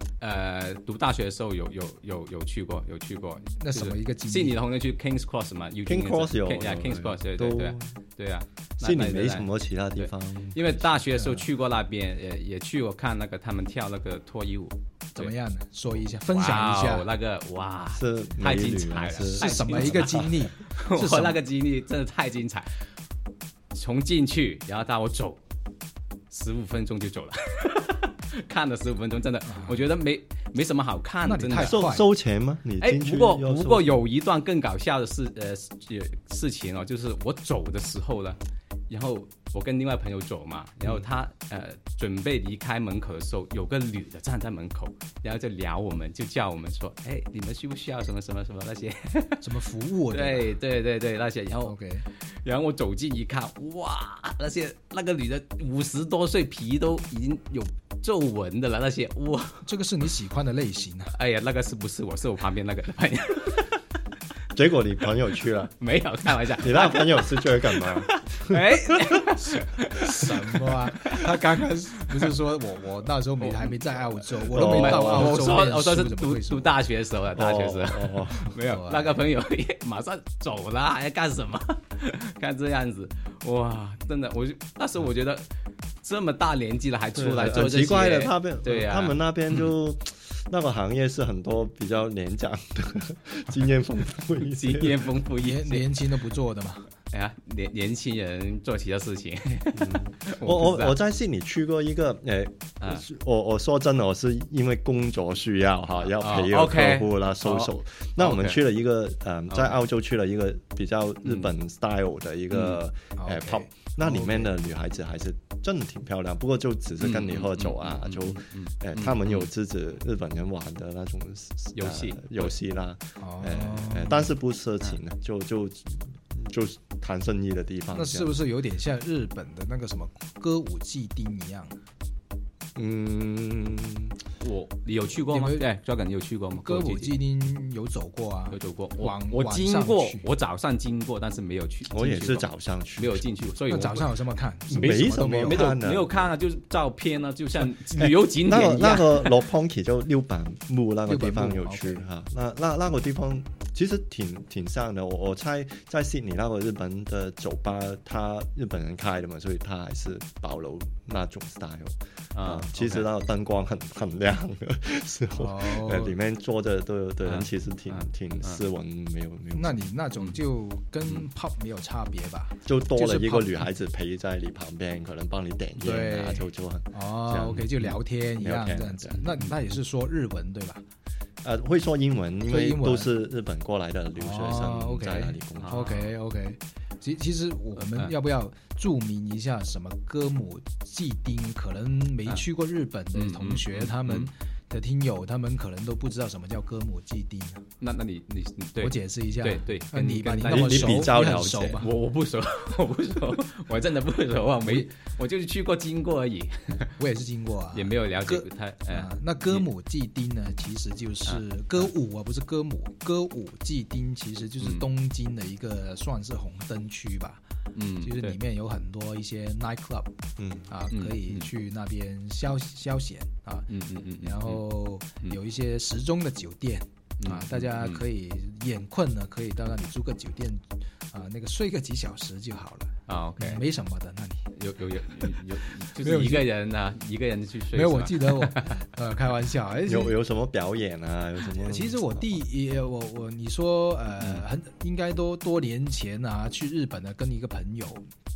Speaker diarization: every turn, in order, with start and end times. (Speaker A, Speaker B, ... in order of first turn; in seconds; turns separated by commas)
Speaker A: 0.2-9.5, Speaker B: 3.6-4.6, Speaker C: 5.8-7.9, Speaker C: 8.8-10.8, Speaker A: 10.0-15.3, Speaker B: 11.1-11.5, Speaker B: 15.1-17.1, Speaker A: 16.2-22.7, Speaker C: 17.9-20.3, Speaker B: 19.3-21.4, Speaker A: 23.7-25.4, Speaker A: 26.3-31.8, Speaker B: 31.2-32.1, Speaker C: 31.6-34.0, Speaker A: 32.8-49.4, Speaker B: 49.4-50.5, Speaker A: 50.1-51.8, Speaker B: 51.6-52.0, Speaker A: 52.3-59.6, Speaker B: 59.6-61.1, Speaker A: 61.1-63.8, Speaker C: 64.5-65.7, Speaker A: 65.8-71.2, Speaker C: 66.5-68.6, Speaker B: 70.0-76.7, Speaker A: 73.4-73.7, Speaker C: 74.5-75.4, Speaker A: 74.5-85.5, Speaker C: 77.3-78.5, Speaker B: 78.5-79.2, Speaker A: 86.0-89.7, Speaker C: 87.1-95.0, Speaker A: 94.4-95.8, Speaker B: 95.4-96.9, Speaker A: 97.1-101.0, Speaker C: 99.8-128.4, Speaker A: 102.8-103.0, Speaker A: 106.0-108.6, Speaker A: 109.5-109.8, Speaker A: 111.2-111.5, Speaker A: 112.5-112.8, Speaker B: 113.2-114.6, Speaker A: 117.0-119.5, Speaker A: 121.7-122.5, Speaker B: 123.2-124.3, Speaker B: 127.9-131.8, Speaker C: 132.7-134.2, Speaker A: 134.4-137.1, Speaker B: 135.1-135.7, Speaker B: 136.6-140.3, Speaker A: 138.5-144.1, Speaker C: 141.9-143.2, Speaker B: 143.7-145.7, Speaker C: 144.7-146.3, Speaker A: 144.8-149.4, Speaker C: 148.0-169.8, Speaker B: 151.1-152.0, Speaker A: 162.3-163.1, Speaker B: 165.3-166.1, Speaker A: 167.2-168.6, Speaker B: 169.5-173.6, Speaker C: 172.7-179.2, Speaker B: 175.8-180.8, Speaker A: 179.2-179.4, Speaker C: 181.4-185.8, Speaker B: 182.5-183.1, Speaker B: 184.2-197.6, Speaker A: 185.6-186.1, Speaker A: 187.8-188.1, Speaker A: 193.1-194.3, Speaker A: 197.8-207.0, Speaker B: 198.8-201.9, Speaker C: 200.4-201.9, Speaker B: 204.6-204.9, Speaker B: 207.0-217.4, Speaker A: 207.7-209.7, Speaker A: 211.2-211.8, Speaker A: 214.6-214.8, Speaker A: 217.7-218.3, Speaker B: 218.0-220.1, Speaker C: 220.4-220.7, Speaker B: 220.7-223.7, Speaker A: 220.9-221.5, Speaker A: 223.7-224.6, Speaker B: 224.2-234.5, Speaker A: 227.2-228.0, Speaker A: 233.1-233.6, Speaker A: 234.5-238.7, Speaker B: 235.9-236.5, Speaker B: 237.7-240.2, Speaker C: 239.8-242.3, Speaker B: 241.6-248.0, Speaker A: 244.2-244.4